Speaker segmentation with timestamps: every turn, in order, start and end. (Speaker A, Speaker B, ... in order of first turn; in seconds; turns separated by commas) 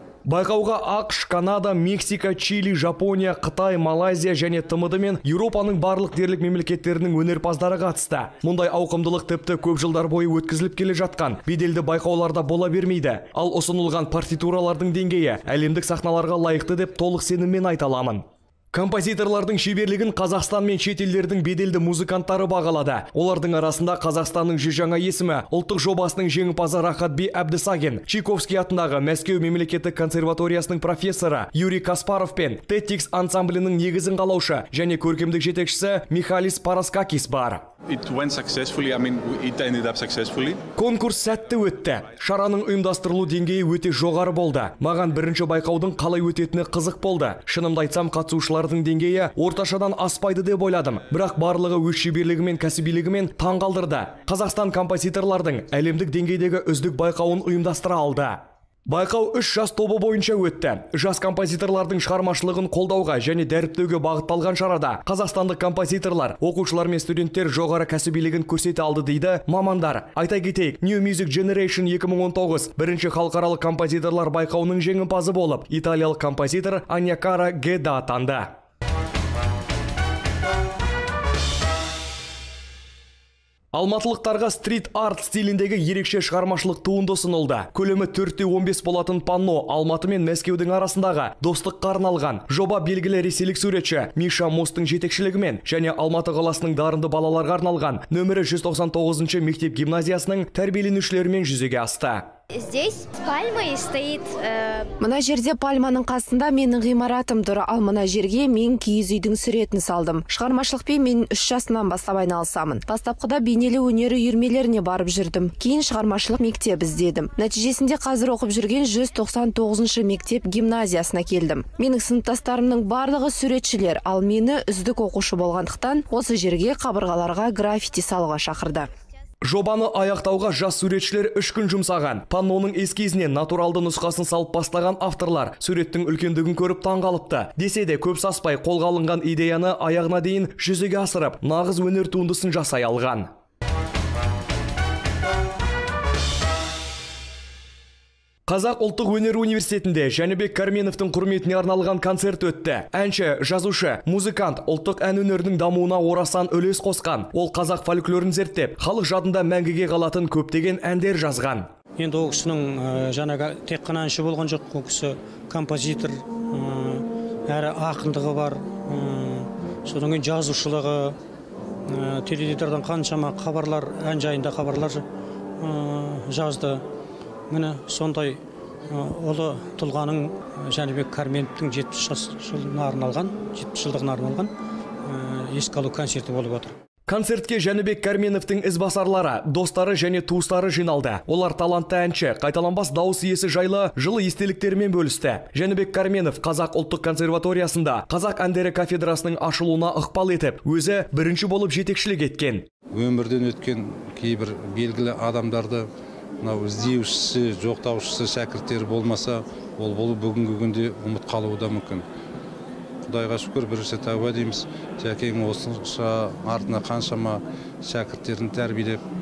Speaker A: 0.3-37.7, Speaker B: 37.9-40.6, Speaker A: 40.8-78.5, Speaker A: 83.7-102.3, Speaker C: 102.5-104.9, Speaker D: 105.0-128.9, Speaker A: 129.4-143.3, Speaker A: 148.5-161.7, Speaker E: 162.0-171.2, Speaker E: 171.9-175.0, Speaker E: 175.6-176.8, Speaker E: 177.5-184.5, Speaker E: 185.1-186.7, Speaker A: 187.1-202.7, Speaker B: 202.9-205.9, Speaker B: 206.4-212.0, Speaker B: 213.1-219.0